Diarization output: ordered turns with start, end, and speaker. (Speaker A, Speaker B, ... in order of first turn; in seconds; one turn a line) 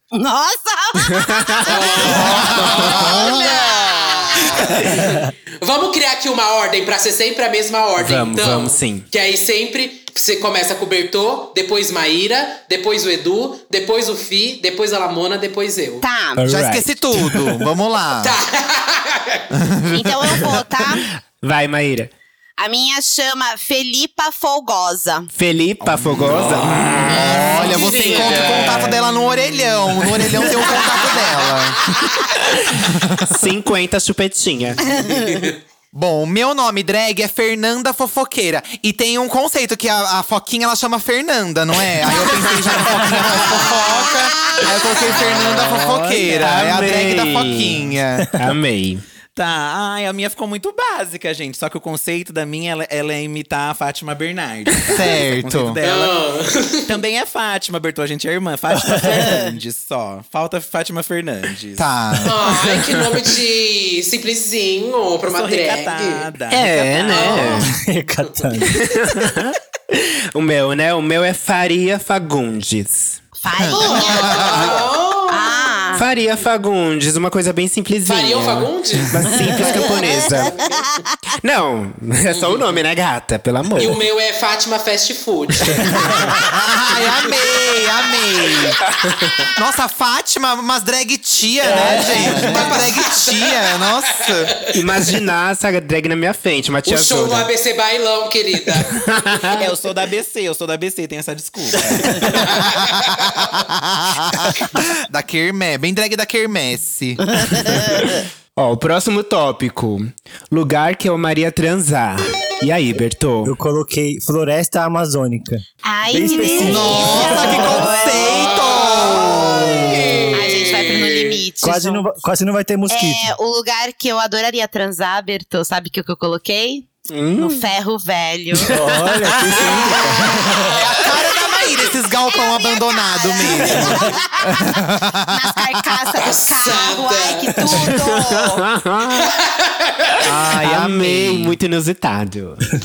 Speaker A: 0.1-4.8
Speaker B: 1.3-1.8
Speaker C: 1.7-16.1
Speaker D: 2.0-3.3
Speaker B: 2.5-3.1
Speaker B: 8.0-9.1
Speaker A: 16.0-16.4
Speaker B: 16.4-17.5
Speaker D: 16.4-18.4
Speaker C: 18.2-19.4
Speaker D: 19.5-20.4
Speaker A: 19.9-21.1
Speaker B: 21.4-22.1
Speaker A: 22.6-25.3
Speaker B: 25.3-29.0
Speaker E: 25.8-27.1
Speaker D: 27.1-31.8
Speaker C: 27.6-28.8
Speaker B: 30.2-30.4
Speaker D: 32.9-33.3
Speaker B: 33.3-34.8
Speaker C: 35.0-35.6
Speaker D: 35.9-48.3
Speaker B: 43.0-43.5
Speaker B: 46.3-47.8
Speaker B: 48.3-49.0
Speaker E: 49.4-56.1
Speaker D: 54.9-55.8
Speaker C: 55.8-57.0
Speaker E: 56.9-61.9
Speaker F: 58.8-59.1
Speaker D: 61.8-62.4
Speaker C: 62.2-66.3
Speaker B: 62.4-62.8
Speaker E: 65.3-67.6
Speaker B: 66.5-67.7
Speaker C: 67.1-67.7
Speaker F: 67.7-68.8
Speaker B: 68.7-73.2
Speaker A: 73.4-76.0
Speaker D: 73.5-74.8
Speaker C: 73.8-75.8
Speaker B: 75.9-80.5
Speaker C: 78.1-80.9
Speaker A: 79.5-81.3
Speaker B: 81.4-84.0
Speaker C: 82.3-82.7
Speaker C: 83.8-87.5
Speaker B: 85.6-86.2
Speaker D: 86.3-88.8
Speaker D: 89.5-94.5
Speaker E: 91.6-92.9
Speaker C: 91.9-94.7
Speaker B: 94.7-97.5
Speaker C: 96.9-99.0
Speaker B: 98.9-99.7
Speaker E: 99.6-102.7
Speaker C: 102.4-103.3
Speaker D: 103.6-107.9
Speaker B: 108.6-113.5
Speaker F: 113.4-118.1
Speaker A: 115.8-119.4
Speaker D: 116.6-120.3
Speaker C: 118.2-121.4
Speaker A: 120.3-122.2
Speaker F: 121.6-123.3
Speaker A: 122.9-128.8
Speaker B: 127.1-127.7
Speaker F: 128.7-130.7
Speaker B: 129.3-130.2
Speaker C: 129.9-131.2
Speaker D: 130.7-136.1
Speaker A: 131.3-138.6
Speaker C: 136.2-137.9
Speaker B: 138.1-139.3
Speaker C: 139.2-140.2
Speaker D: 140.2-141.6
Speaker B: 140.6-142.7